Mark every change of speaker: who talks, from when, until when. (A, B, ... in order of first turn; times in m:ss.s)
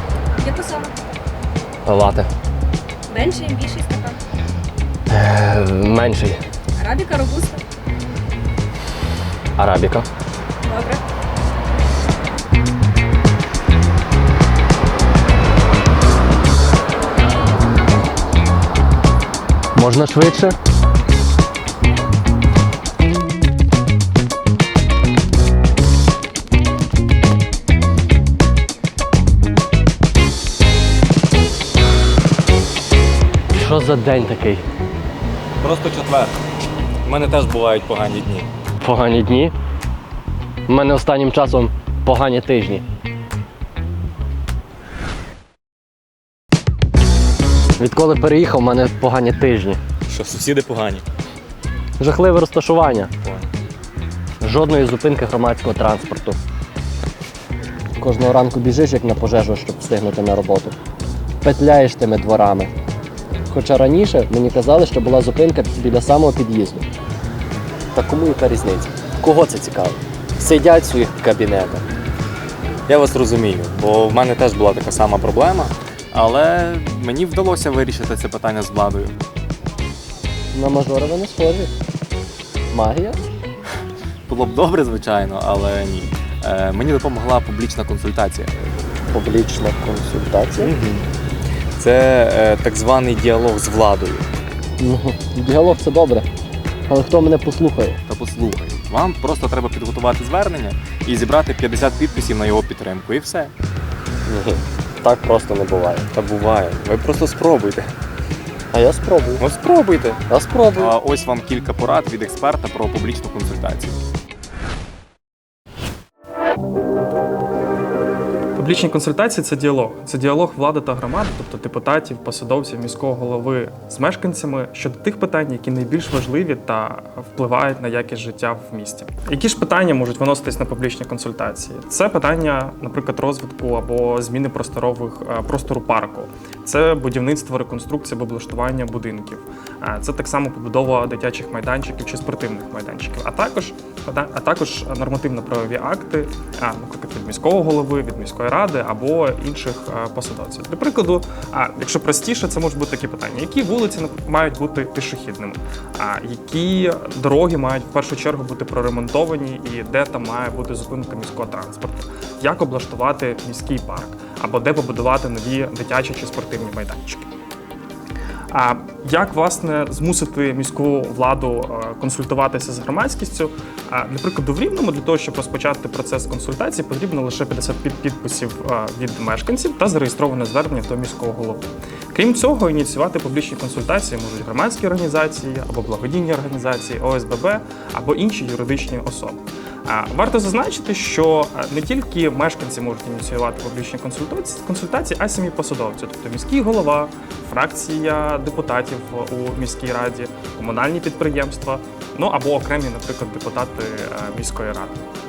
0:00.4-0:00.9 A
0:01.8-0:02.3 B
0:03.1-0:04.2 A
0:05.1-0:06.4 B
0:06.8-0:07.6 A
0:09.6-0:10.0 B
0:10.6-0:11.0 A
0:19.8-0:20.6 B
0:33.5-0:34.6 B
0:35.6-0:36.3 C
0:37.0-0:38.5 C
0:38.8-0:39.5 B
0:40.7-0:42.8 B
0:47.8-0:49.8 B
0:50.1-0:51.0 C
0:52.0-0:53.1 B
0:53.2-0:53.5 C
0:54.4-0:56.4 B
0:58.0-1:00.8 B
1:01.4-1:02.7 B
1:03.5-1:06.9 B
1:07.9-1:11.8 B
1:12.9-1:19.2 C
1:20.5-1:21.7 B
1:22.7-1:23.2 B
1:24.3-1:28.6 C
1:29.1-1:30.7 B
1:30.6-1:31.1 C
1:31.8-1:34.3 C
1:34.8-1:36.3 B
1:36.9-1:38.0 B
1:38.1-1:43.5 C
1:44.3-1:46.1 B
1:46.1-1:47.9 C
1:48.7-1:49.4 B
1:49.4-1:54.0 C
1:50.3-1:51.0 B
1:58.6-2:47.3 D
2:48.5-3:25.0 D